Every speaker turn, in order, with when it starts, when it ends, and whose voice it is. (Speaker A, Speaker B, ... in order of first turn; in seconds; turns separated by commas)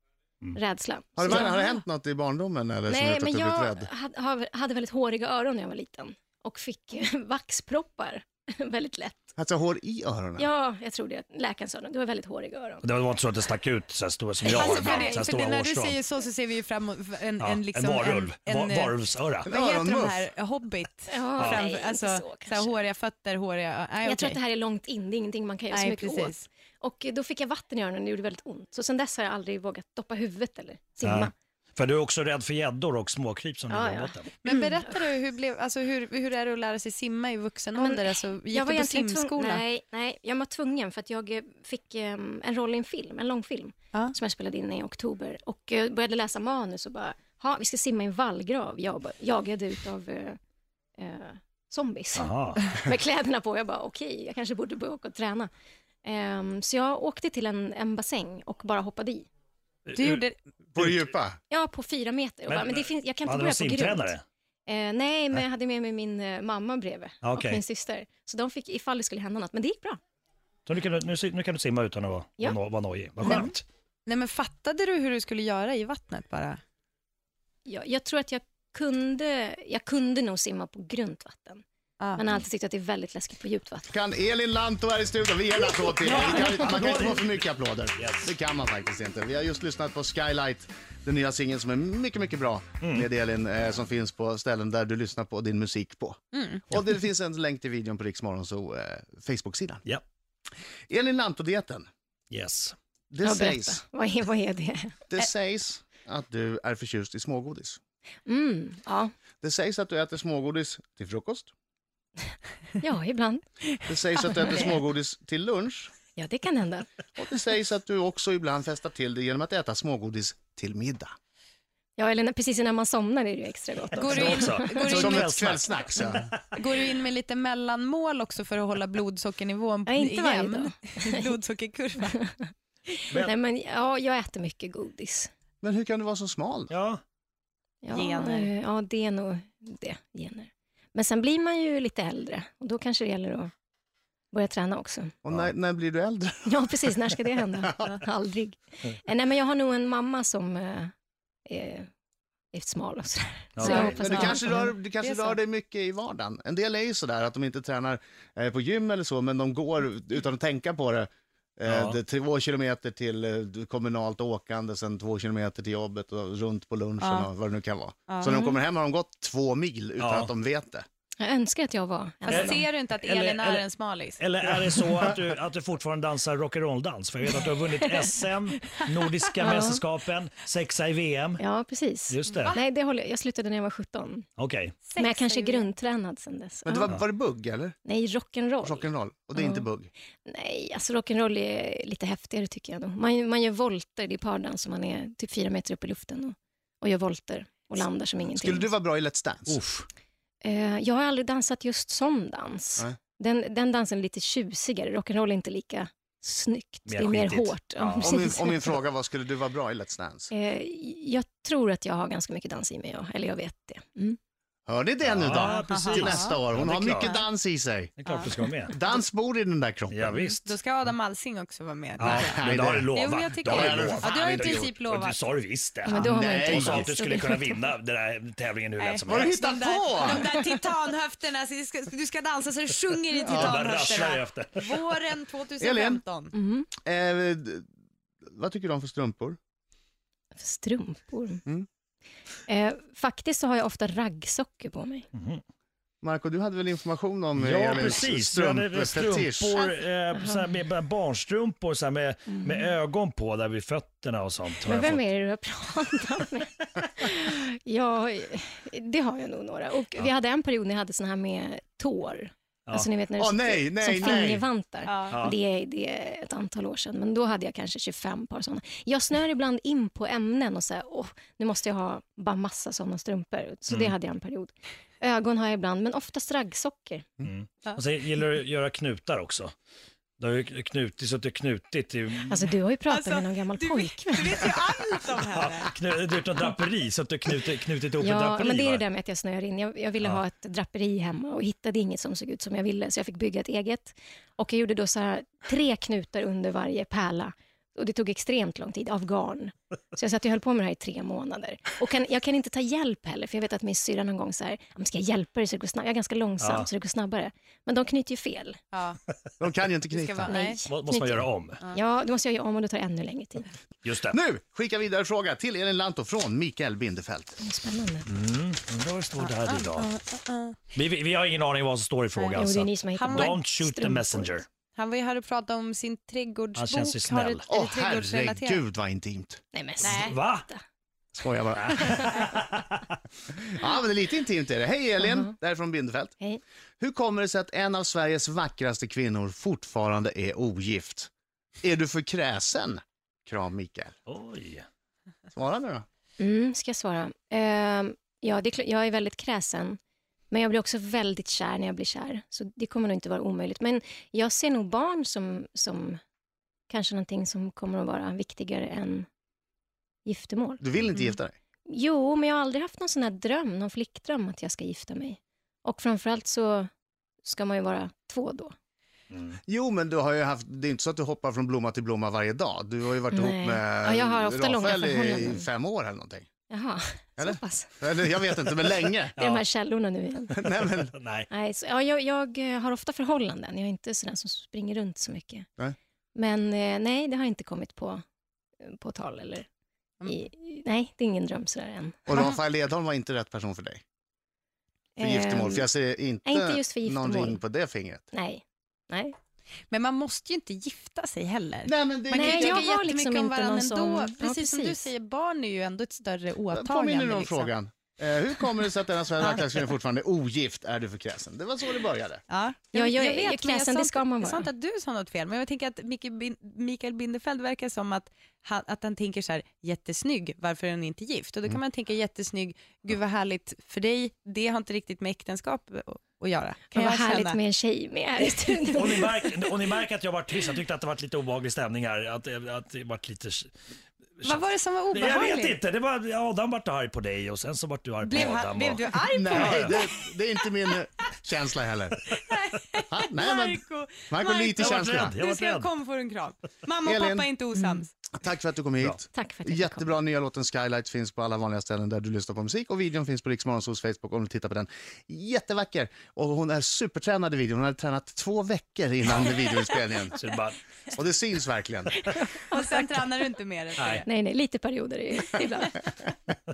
Speaker A: 0.5-1.7, Speaker B: 1.2-3.9, Speaker C: 1.3-1.6, Speaker A: 2.9-9.3, Speaker B: 9.4-10.5, Speaker A: 10.4-12.8, Speaker D: 12.8-15.9, Speaker C: 14.4-18.9, Speaker A: 14.5-15.3, Speaker D: 17.4-19.5, Speaker B: 19.4-20.3, Speaker C: 19.5-24.4, Speaker A: 21.1-22.7, Speaker A: 24.0-31.3, Speaker C: 25.7-26.5, Speaker D: 31.0-34.3, Speaker A: 33.7-34.9, Speaker C: 34.4-39.6, Speaker A: 37.7-50.4, Speaker A: 51.0-55.5, Speaker D: 52.1-52.6, Speaker A: 56.0-59.3, Speaker D: 59.9-60.2, Speaker C: 59.9-60.4, Speaker B: 60.7-61.4, Speaker D: 60.8-61.1, Speaker A: 61.5-70.0, Speaker D: 62.5-64.2, Speaker D: 67.2-67.6, Speaker D: 70.7-73.6, Speaker C: 73.2-73.5, Speaker C: 74.0-76.6, Speaker A: 77.7-81.6, Speaker C: 82.0-82.3, Speaker A: 82.1-83.9, Speaker B: 83.9-99.8, Speaker D: 86.0-87.4, Speaker D: 88.0-88.3, Speaker D: 92.8-93.1, Speaker C: 96.3-96.6, Speaker B: 100.9-101.9, Speaker D: 102.3-102.8, Speaker B: 103.1-103.8, Speaker A: 103.2-104.9, Speaker B: 105.1-107.8, Speaker A: 108.2-109.1, Speaker B: 109.4-111.5, Speaker A: 112.8-113.5, Speaker B: 113.8-115.9, Speaker A: 114.5-114.8, Speaker A: 116.2-116.9, Speaker B: 117.2-121.1, Speaker A: 122.0-124.9, Speaker C: 123.9-125.4, Speaker D: 124.1-126.6, Speaker B: 124.9-126.3, Speaker C: 126.5-132.3, Speaker A: 129.9-131.2, Speaker A: 133.1-135.3, Speaker B: 135.6-136.7, Speaker D: 136.7-137.0, Speaker A: 137.8-143.5, Speaker C: 137.9-138.5, Speaker A: 144.3-145.1, Speaker B: 145.2-146.7, Speaker A: 146.4-150.9, Speaker A: 151.4-151.9, Speaker A: 152.5-154.6, Speaker D: 153.6-154.3, Speaker C: 153.6-155.4, Speaker B: 153.8-170.8, Speaker D: 161.7-162.0, Speaker C: 167.0-167.3, Speaker C: 168.1-168.6, Speaker D: 170.0-170.3, Speaker A: 171.2-172.6, Speaker C: 172.3-174.2, Speaker D: 172.3-173.7, Speaker D: 174.2-181.4, Speaker A: 179.4-179.8, Speaker A: 181.4-184.2, Speaker D: 182.1-182.6, Speaker D: 184.4-184.8, Speaker C: 184.8-185.7, Speaker A: 185.0-187.0, Speaker B: 186.6-187.8, Speaker A: 187.8-189.6, Speaker B: 188.6-189.9, Speaker A: 190.2-198.7, Speaker B: 198.3-199.6, Speaker D: 199.5-199.8, Speaker A: 200.4-208.7, Speaker D: 206.9-208.3, Speaker B: 208.0-210.3, Speaker A: 210.3-214.2, Speaker B: 214.7-217.9, Speaker D: 215.0-217.2, Speaker C: 215.3-216.3, Speaker D: 218.0-218.7, Speaker C: 218.1-218.5, Speaker B: 218.7-220.2, Speaker D: 219.9-220.5, Speaker C: 220.2-225.2, Speaker D: 222.0-229.3, Speaker B: 222.0-222.9, Speaker B: 223.4-224.7, Speaker A: 225.8-227.3, Speaker B: 225.9-226.9, Speaker C: 228.8-236.3, Speaker B: 229.1-230.3, Speaker B: 233.3-233.6, Speaker D: 233.3-234.8, Speaker B: 235.6-236.0, Speaker A: 236.3-236.7, Speaker B: 236.8-237.7, Speaker B: 238.3-239.4, Speaker A: 240.3-241.4, Speaker A: 242.5-245.1, Speaker D: 245.1-245.4, Speaker B: 246.0-249.5, Speaker D: 247.3-255.0, Speaker A: 252.4-252.7, Speaker A: 254.6-277.1, Speaker B: 263.2-264.4, Speaker C: 264.9-265.2, Speaker D: 265.1-265.4, Speaker D: 273.7-273.9, Speaker D: 277.2-279.5, Speaker D: 280.2-282.5, Speaker A: 282.3-284.5, Speaker C: 282.9-285.7, Speaker D: 285.3-288.8, Speaker A: 288.0-308.6, Speaker D: 306.4-306.7, Speaker C: 308.7-309.0, Speaker B: 309.4-310.3, Speaker C: 309.9-310.6, Speaker A: 310.2-313.6, Speaker D: 310.6-311.6, Speaker D: 313.8-314.2, Speaker B: 314.1-317.4, Speaker A: 317.4-318.1, Speaker D: 318.1-319.9, Speaker C: 319.2-320.6, Speaker D: 320.7-324.4, Speaker C: 322.1-323.5, Speaker A: 322.4-324.4, Speaker C: 324.7-328.6, Speaker D: 326.6-327.4, Speaker B: 327.5-329.4, Speaker A: 329.5-330.6, Speaker C: 329.8-330.2, Speaker D: 329.9-330.5, Speaker B: 331.1-332.2, Speaker D: 331.6-333.0, Speaker A: 331.8-332.1, Speaker B: 333.3-336.1, Speaker A: 335.0-335.3, Speaker B: 336.8-341.1, Speaker B: 341.6-343.9, Speaker D: 344.1-344.6, Speaker B: 345.3-345.8, Speaker A: 346.2-349.8, Speaker A: 350.3-356.0, Speaker A: 356.7-359.1, Speaker A: 360.0-360.6, Speaker B: 360.6-361.3, Speaker A: 361.6-366.7, Speaker A: 367.2-368.5, Speaker D: 369.1-369.4, Speaker B: 369.5-376.3, Speaker A: 373.1-375.5, Speaker A: 376.5-377.8, Speaker B: 377.2-379.2, Speaker D: 379.2-379.4, Speaker A: 379.2-380.4, Speaker B: 380.3-380.9, Speaker D: 380.9-381.3, Speaker A: 381.3-385.5, Speaker A: 386.1-388.0, Speaker A: 388.6-389.4, Speaker A: 390.1-392.2, Speaker B: 392.1-393.8, Speaker A: 394.9-395.7, Speaker B: 395.0-398.1, Speaker A: 396.2-397.4, Speaker A: 398.1-399.1, Speaker C: 399.7-407.5, Speaker B: 401.6-402.6, Speaker A: 402.1-404.9, Speaker B: 406.5-412.2, Speaker C: 409.2-409.6, Speaker C: 412.3-427.4, Speaker A: 412.7-414.5, Speaker A: 426.7-429.1, Speaker D: 428.7-433.5, Speaker C: 434.2-435.6, Speaker D: 434.9-439.7, Speaker C: 438.0-440.0, Speaker B: 439.1-442.1, Speaker C: 442.1-447.9, Speaker B: 442.9-445.1, Speaker D: 444.6-445.7, Speaker B: 446.8-447.3, Speaker B: 448.1-460.2, Speaker A: 449.1-450.0, Speaker D: 460.1-460.6, Speaker B: 460.9-462.1, Speaker C: 462.4-464.1, Speaker A: 462.5-462.8, Speaker D: 463.8-464.1, Speaker A: 464.0-465.9